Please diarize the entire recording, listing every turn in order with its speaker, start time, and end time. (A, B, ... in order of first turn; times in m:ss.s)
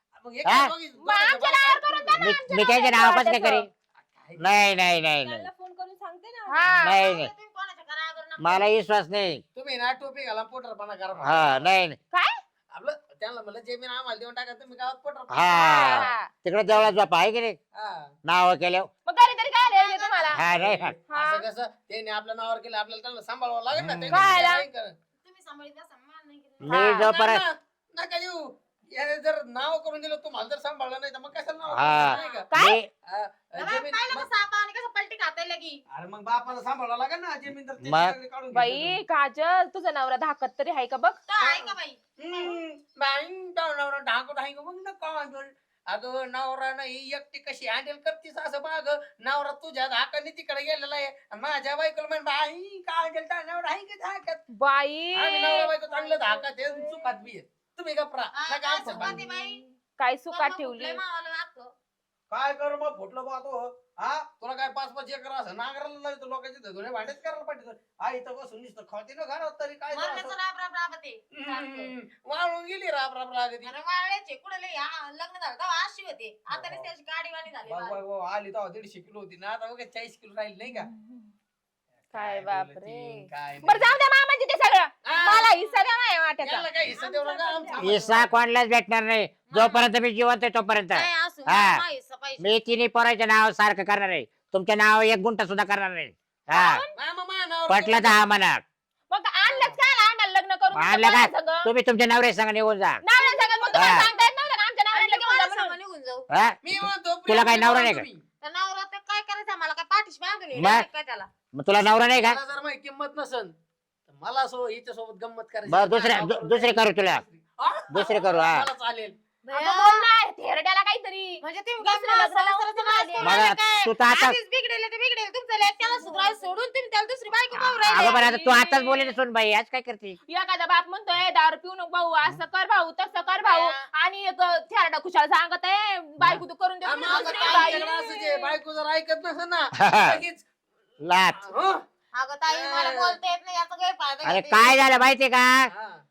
0:00.2-0:02.2 A
0:00.4-0:00.7 B
0:01.0-0:03.6 C
0:02.2-0:03.7 B
0:04.1-0:04.6 A
0:04.4-0:05.5 B
0:05.2-0:06.7 D
0:06.5-0:07.0 C
0:06.8-0:07.3 B
0:06.8-0:08.6 E
0:08.4-0:09.4 B
0:09.5-0:11.6 A
0:11.2-0:12.0 B
0:12.1-0:12.4 C
0:12.7-0:16.1 A
0:15.3-0:17.6 B
0:15.5-0:16.3 C
0:16.6-0:16.9 A
0:17.7-0:18.1 A
0:18.2-0:18.9 B
0:19.0-0:20.4 C
0:19.6-0:20.4 E
0:20.3-0:20.9 B
0:20.5-0:24.9 A
0:21.1-0:21.4 C
0:23.7-0:24.4 B
0:24.1-0:24.6 C
0:25.2-0:26.9 E
0:26.6-0:27.4 B
0:26.7-0:27.1 C
0:26.7-0:32.5 A
0:31.7-0:32.9 B
0:31.9-0:32.4 E
0:32.5-0:32.8 C
0:33.1-0:34.3 A
0:33.6-0:35.8 E
0:35.9-0:39.0 A
0:37.8-0:38.2 B
0:38.5-0:41.7 C
0:41.3-0:42.5 E
0:42.2-0:54.4 A
0:54.5-0:55.7 C
0:55.1-0:59.3 A
0:55.5-0:57.3 D
0:58.3-0:59.6 E
0:58.9-1:01.0 C
1:00.3-1:01.7 E
1:02.3-1:10.4 A
1:09.9-1:11.9 E
1:11.3-1:13.7 A
1:13.6-1:18.0 E
1:16.5-1:16.9 A
1:17.6-1:20.9 A
1:20.7-1:21.3 C
1:22.1-1:24.0 A
1:22.1-1:26.7 C
1:25.0-1:25.6 A
1:26.4-1:28.4 A
1:27.0-1:28.2 D
1:27.8-1:31.8 B
1:29.5-1:29.9 E
1:30.9-1:32.5 E
1:32.4-1:36.8 B
1:36.5-1:36.9 C
1:37.0-1:38.2 A
1:37.7-1:38.6 B
1:39.1-1:41.7 C
1:39.4-1:39.8 A
1:40.7-1:43.0 B
1:43.0-1:45.7 C
1:43.1-1:44.3 E
1:43.7-1:44.1 B
1:44.9-1:46.3 E
1:46.3-1:46.6 B
1:46.6-1:48.2 A
1:47.3-1:48.1 B
1:48.4-1:51.3 E
1:50.5-1:50.9 B
1:51.5-1:52.4 B
1:52.2-1:53.5 A
1:54.1-1:59.2 A
1:55.7-1:57.2 B
1:57.9-1:58.7 B
1:59.4-2:00.1 E
1:59.5-2:03.4 C
2:01.4-2:08.3 E
2:03.2-2:04.4 B
2:07.6-2:10.2 B
2:07.8-2:09.1 C
2:10.3-2:18.5 C
2:13.3-2:13.8 E
2:16.8-2:20.4 A
2:17.0-2:18.0 E
2:19.8-2:20.2 B
2:21.0-2:21.4 B
2:21.3-2:21.8 A
2:22.1-2:24.8 E
2:22.5-2:23.2 A
2:24.2-2:25.7 B
2:25.7-2:26.0 A